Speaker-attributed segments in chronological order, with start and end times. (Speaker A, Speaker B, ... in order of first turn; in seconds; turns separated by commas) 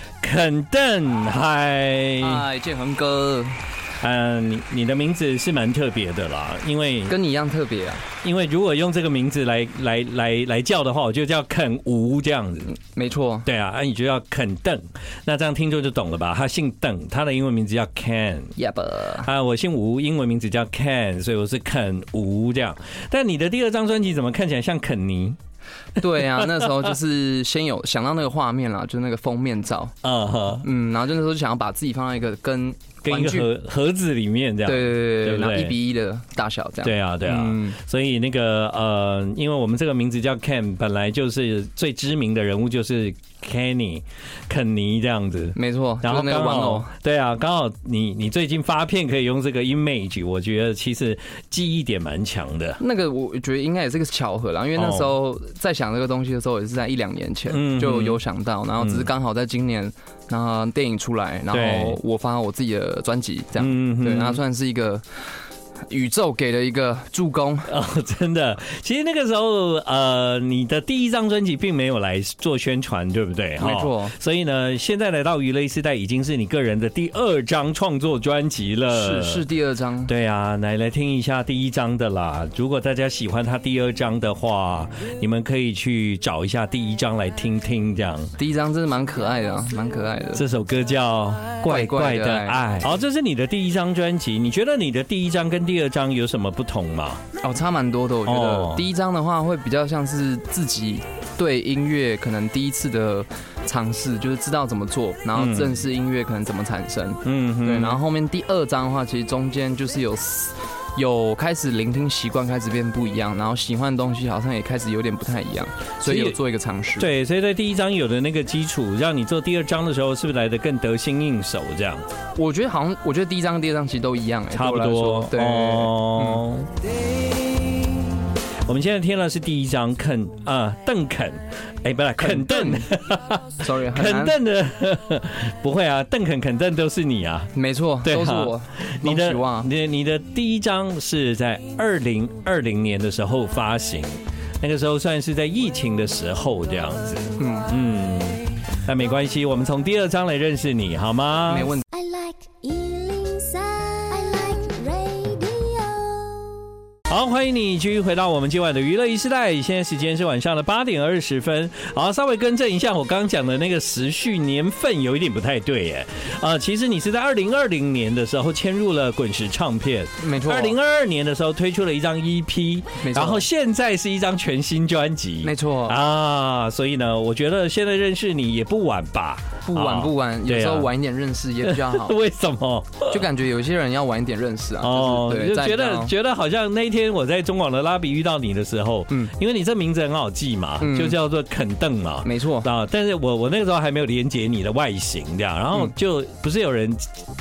Speaker A: 0.2-2.4, Speaker B: 2.2-3.6, Speaker A: 4.0-7.2, Speaker B: 7.1-8.0, Speaker A: 8.2-12.7, Speaker B: 12.7-13.5, Speaker A: 13.4-18.5, Speaker B: 18.6-19.3, Speaker A: 19.2-25.4, Speaker B: 26.0-29.9, Speaker A: 30.0-30.6, Speaker B: 30.6-33.5, Speaker A: 33.0-35.7, Speaker B: 34.6-37.8, Speaker A: 36.8-52.8, Speaker B: 45.5-46.9, Speaker B: 52.8-65.0, Speaker A: 54.8-55.1, Speaker A: 57.5-58.2, Speaker A: 58.8-59.1, Speaker A: 61.5-62.0, Speaker A: 63.6-64.4, Speaker B: 65.9-67.7, Speaker A: 67.7-79.4, Speaker B: 73.6-74.1, Speaker B: 78.9-80.1, Speaker A: 80.1-88.3, Speaker B: 88.4-90.4, Speaker A: 90.3-97.2, Speaker B: 91.6-92.6, Speaker B: 97.4-117.1, Speaker A: 98.2-98.8, Speaker A: 105.3-105.8, Speaker A: 107.2-108.0, Speaker A: 116.0-116.4, Speaker A: 117.0-122.0, Speaker B: 122.3-126.4, Speaker A: 124.5-126.8, Speaker A: 128.6-137.5, Speaker B: 132.2-132.9, Speaker B: 133.6-134.4, Speaker B: 137.5-139.7, Speaker A: 138.0-151.7, Speaker B: 147.4-147.7, Speaker B: 151.5-151.8, Speaker C: 151.9-156.6, Speaker A: 157.1-180.9, Speaker B: 170.2-170.8, Speaker B: 173.0-173.5, Speaker B: 175.4-176.0, Speaker B: 179.6-182.2, Speaker A: 181.6-183.2, Speaker B: 183.1-186.1, Speaker A: 184.8-197.1, Speaker B: 190.8-191.2, Speaker B: 192.2-192.7